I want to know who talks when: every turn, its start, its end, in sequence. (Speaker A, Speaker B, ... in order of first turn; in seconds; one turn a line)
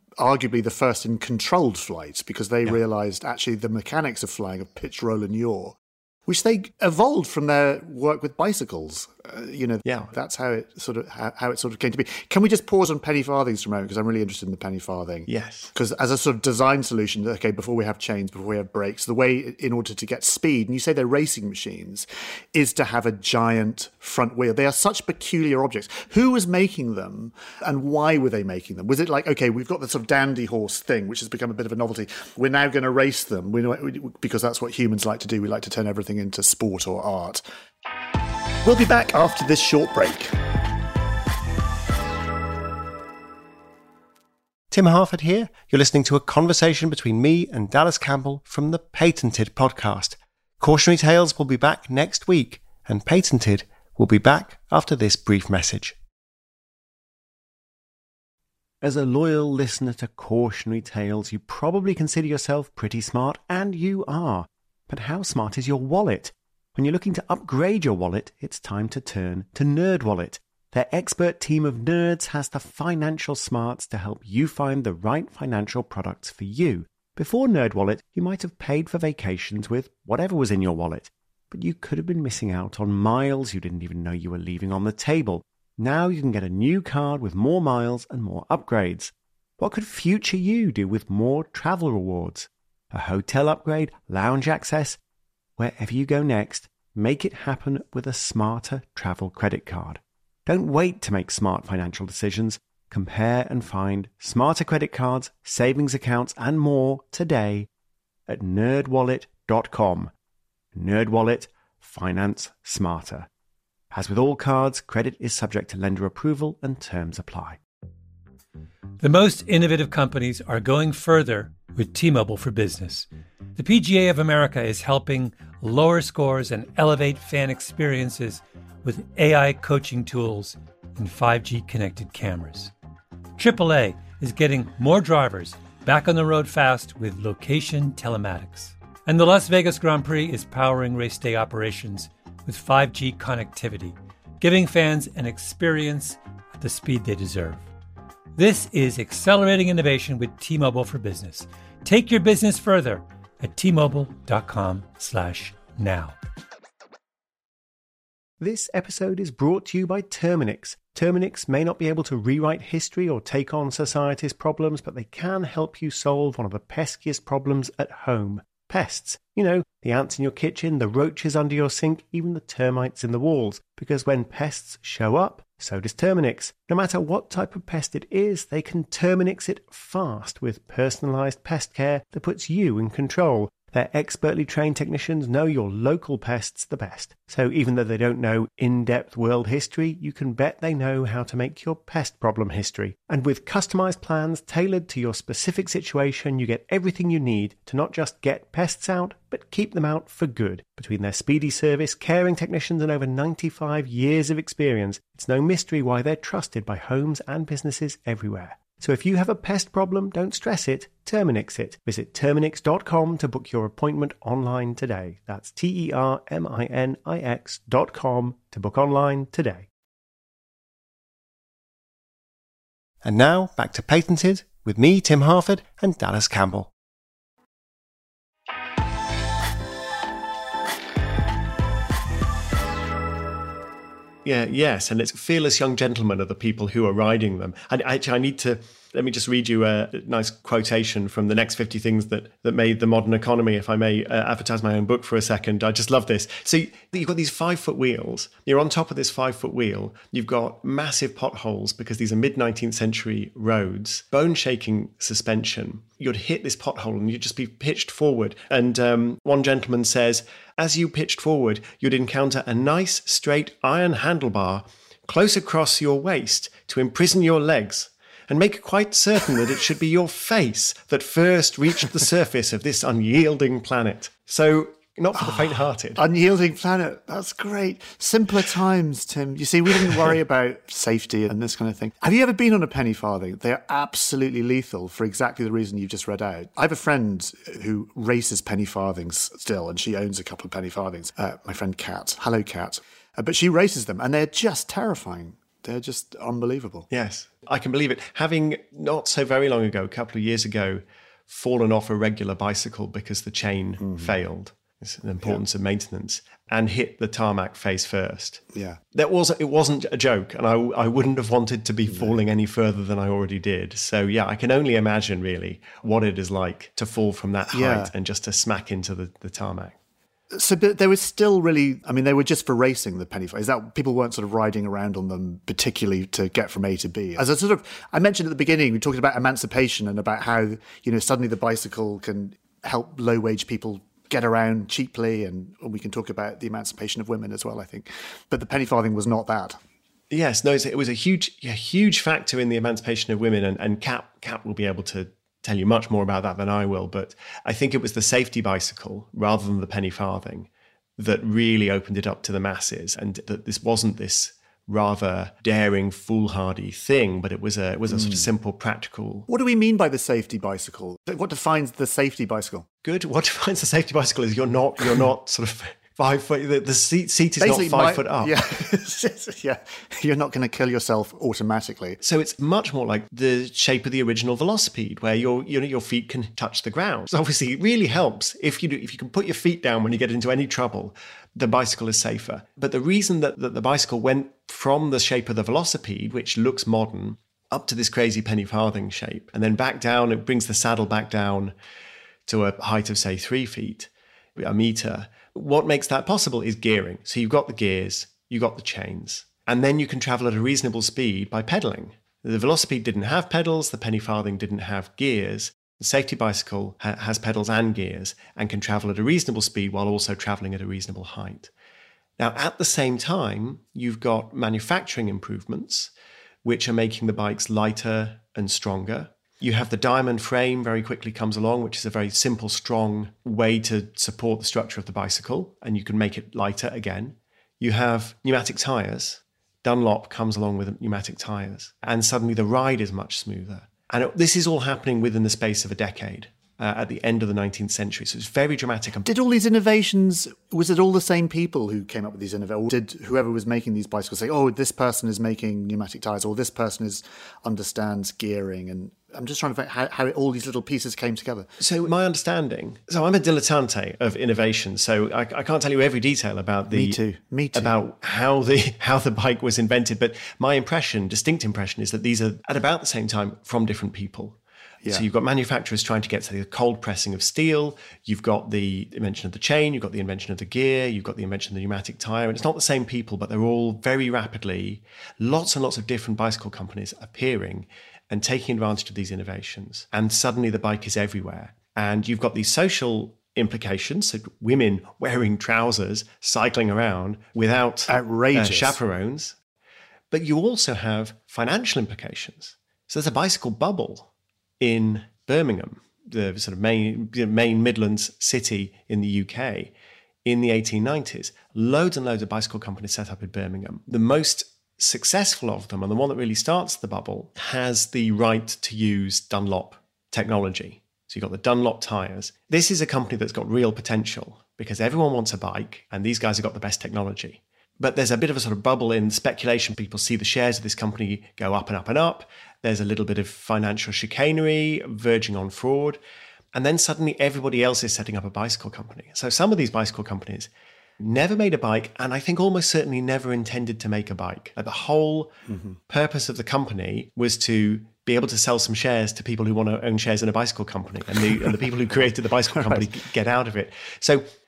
Speaker A: 0.2-37.4
Speaker B: 9.8-10.1
Speaker B: 15.3-15.7
Speaker A: 38.6-40.4
Speaker B: 44.7-56.0
Speaker B: 58.8-95.0
Speaker B: 95.6-107.7
Speaker B: 108.3-110.1
Speaker B: 110.7-113.3
Speaker B: 113.9-117.6
Speaker C: 119.0-132.7
Speaker C: 133.4-147.7
Speaker C: 148.4-156.2
Speaker B: 158.4-219.7
Speaker B: 223.0-226.7
Speaker B: 234.2-276.0
Speaker A: 275.2-296.9
Speaker B: 296.9-308.4
Speaker A: 303.8-304.2
Speaker A: 308.5-308.8
Speaker B: 308.9-319.8
Speaker A: 311.9-312.1
Speaker A: 317.5-317.9
Speaker A: 320.3-339.6
Speaker B: 340.1-359.3
Speaker A: 357.9-358.3
Speaker A: 359.3-362.7
Speaker B: 362.8-368.4
Speaker A: 367.4-372.0
Speaker B: 372.0-391.5
Speaker B: 392.3-411.5
Speaker B: 412.2-415.9
Speaker B: 416.4-439.1
Speaker A: 439.1-451.5
Speaker B: 451.6-457.0
Speaker A: 456.7-457.8
Speaker B: 457.5-489.4
Speaker A: 487.9-488.8
Speaker B: 490.1-494.1
Speaker B: 494.6-499.7
Speaker B: 500.2-526.0
Speaker B: 526.5-535.3
Speaker A: 535.5-535.8
Speaker B: 535.9-544.2
Speaker A: 542.5-542.9